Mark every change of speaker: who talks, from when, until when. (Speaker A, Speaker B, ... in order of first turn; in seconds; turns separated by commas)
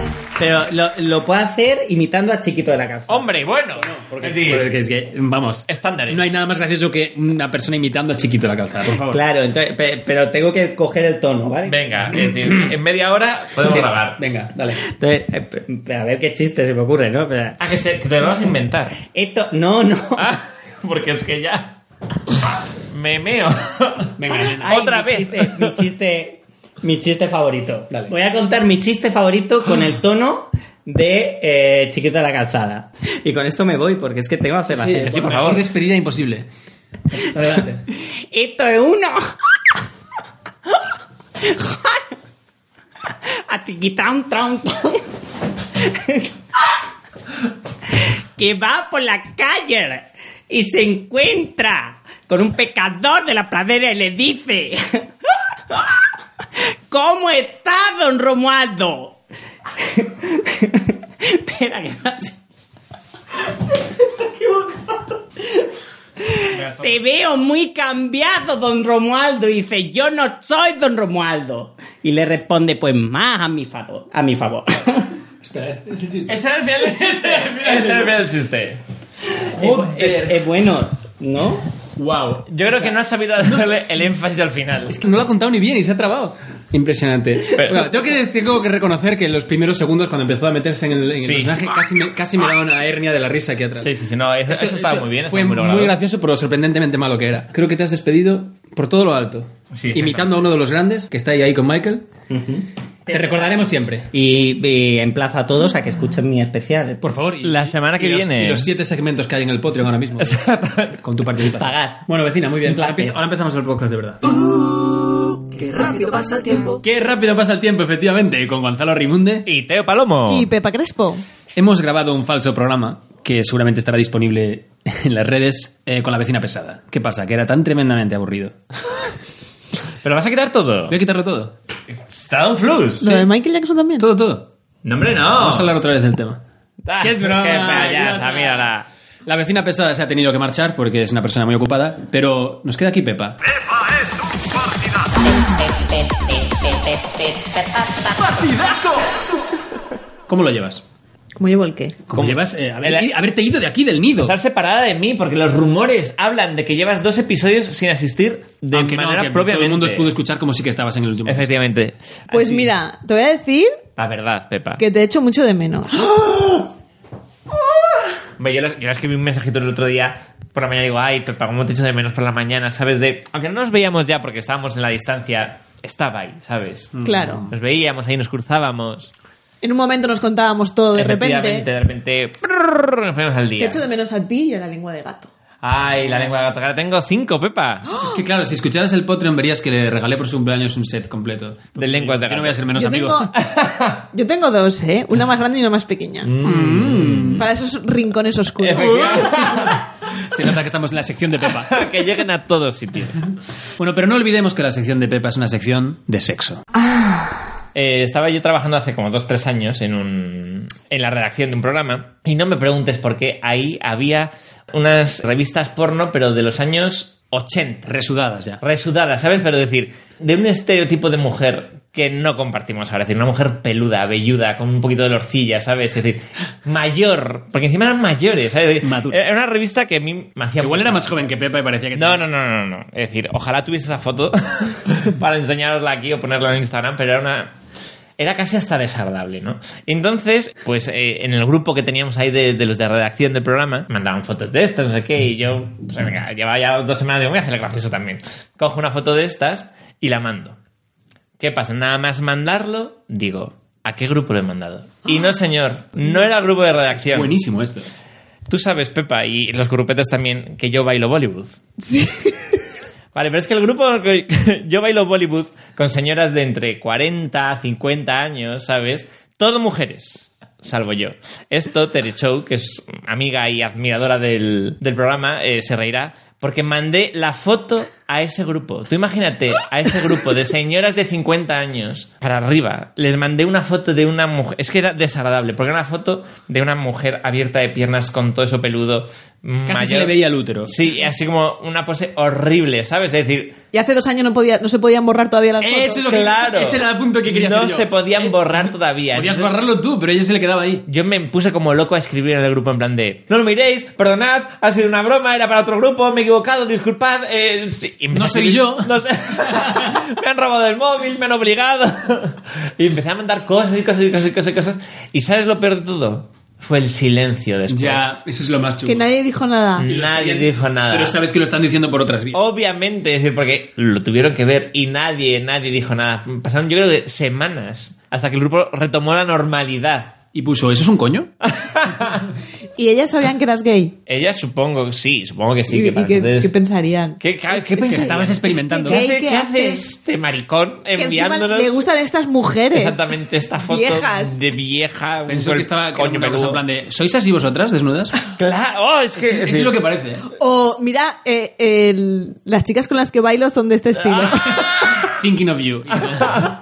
Speaker A: 0.4-3.3, Speaker B: 3.1-4.7, Speaker C: 3.8-9.2, Speaker B: 5.7-6.4, Speaker A: 8.9-12.4, Speaker B: 11.7-14.2, Speaker C: 13.6-14.8, Speaker A: 14.8-17.6, Speaker B: 17.6-19.0, Speaker A: 19.0-20.4, Speaker B: 20.2-21.8, Speaker B: 22.9-24.1, Speaker C: 24.2-24.7, Speaker A: 24.4-35.5, Speaker B: 24.6-25.8, Speaker C: 34.7-36.5, Speaker B: 35.0-35.6, Speaker C: 37.1-37.8, Speaker A: 37.5-39.2, Speaker A: 41.4-42.1, Speaker A: 43.3-45.1, Speaker A: 45.7-46.7, Speaker A: 47.9-55.1, Speaker A: 55.7-56.0, Speaker A: 56.9-59.2, Speaker A: 59.8-62.4, Speaker A: 63.7-65.7, Speaker A: 66.2-75.1, Speaker B: 66.5-67.0, Speaker C: 75.4-76.4, Speaker B: 76.3-78.8, Speaker C: 76.9-78.1, Speaker A: 79.5-81.7, Speaker C: 79.6-80.4, Speaker C: 82.0-83.8, Speaker B: 82.5-85.0, Speaker C: 84.9-93.9, Speaker B: 87.5-87.9, Speaker B: 91.2-91.6, Speaker B: 93.8-95.9, Speaker C: 94.5-102.1, Speaker B: 99.7-100.3, Speaker A: 102.3-103.5, Speaker C: 103.1-104.1, Speaker A: 104.1-107.1, Speaker C: 107.0-110.4, Speaker B: 107.4-108.7, Speaker B: 110.2-111.0, Speaker C: 111.0-114.2, Speaker A: 111.5-112.0, Speaker A: 112.7-113.1, Speaker D: 114.2-116.8, Speaker C: 116.8-119.5, Speaker B: 119.5-120.5, Speaker E: 120.3-121.2, Speaker C: 121.5-128.6, Speaker B: 130.0-130.9, Speaker C: 130.9-131.5, Speaker B: 131.9-133.3, Speaker E: 133.0-134.1, Speaker C: 134.0-134.5, Speaker B: 134.8-135.7, Speaker C: 135.3-136.4, Speaker B: 136.8-138.9, Speaker C: 137.0-138.7, Speaker C: 139.2-143.4, Speaker A: 145.3-147.9, Speaker C: 148.3-149.1, Speaker C: 150.3-150.8, Speaker E: 151.3-152.0, Speaker C: 152.1-154.3, Speaker B: 152.1-153.1, Speaker B: 154.2-160.1, Speaker C: 158.7-161.5, Speaker B: 161.2-162.6, Speaker E: 162.3-163.8, Speaker B: 164.0-164.8, Speaker E: 164.8-166.1, Speaker B: 168.4-179.1, Speaker C: 176.9-177.5, Speaker E: 177.0-177.5, Speaker E: 179.6-181.7, Speaker B: 180.9-183.9, Speaker E: 183.6-185.3, Speaker B: 185.6-187.9, Speaker C: 188.0-193.3, Speaker B: 191.8-192.7, Speaker E: 192.7-193.3, Speaker B: 193.4-194.0, Speaker E: 194.1-196.3, Speaker B: 196.2-197.5, Speaker C: 196.4-197.4, Speaker E: 197.4-199.1, Speaker B: 198.6-199.9, Speaker C: 198.7-201.8, Speaker B: 201.7-203.3, Speaker C: 203.8-206.6, Speaker E: 206.9-207.2, Speaker B: 207.7-217.9, Speaker C: 217.9-218.6, Speaker B: 218.6-231.3, Speaker C: 228.8-229.2, Speaker C: 230.6-232.2, Speaker B: 231.9-237.5, Speaker B: 238.2-250.6, Speaker B: 251.4-257.4, Speaker C: 256.8-257.9, Speaker B: 258.5-261.6, Speaker E: 261.9-262.3, Speaker B: 263.1-293.6, Speaker C: 289.6-290.7, Speaker E: 293.7-296.0, Speaker C: 295.6-300.8, Speaker B: 296.1-299.6, Speaker B: 300.9-318.2, Speaker C: 308.1-309.9, Speaker C: 317.7-319.1, Speaker E: 318.8-319.9, Speaker B: 319.8-321.2, Speaker C: 319.8-322.4, Speaker B: 322.3-330.1, Speaker C: 330.3-331.3, Speaker B: 331.4-332.2, Speaker E: 332.8-333.9, Speaker B: 334.1-336.5, Speaker E: 335.7-339.8, Speaker B: 337.2-341.9, Speaker C: 337.8-339.0, Speaker E: 340.9-343.1, Speaker B: 342.7-346.6, Speaker E: 343.6-344.4, Speaker C: 345.3-348.2, Speaker B: 348.2-349.8, Speaker C: 349.1-350.3, Speaker E: 350.4-354.7, Speaker B: 353.9-355.1, Speaker C: 354.9-356.5, Speaker B: 356.0-356.5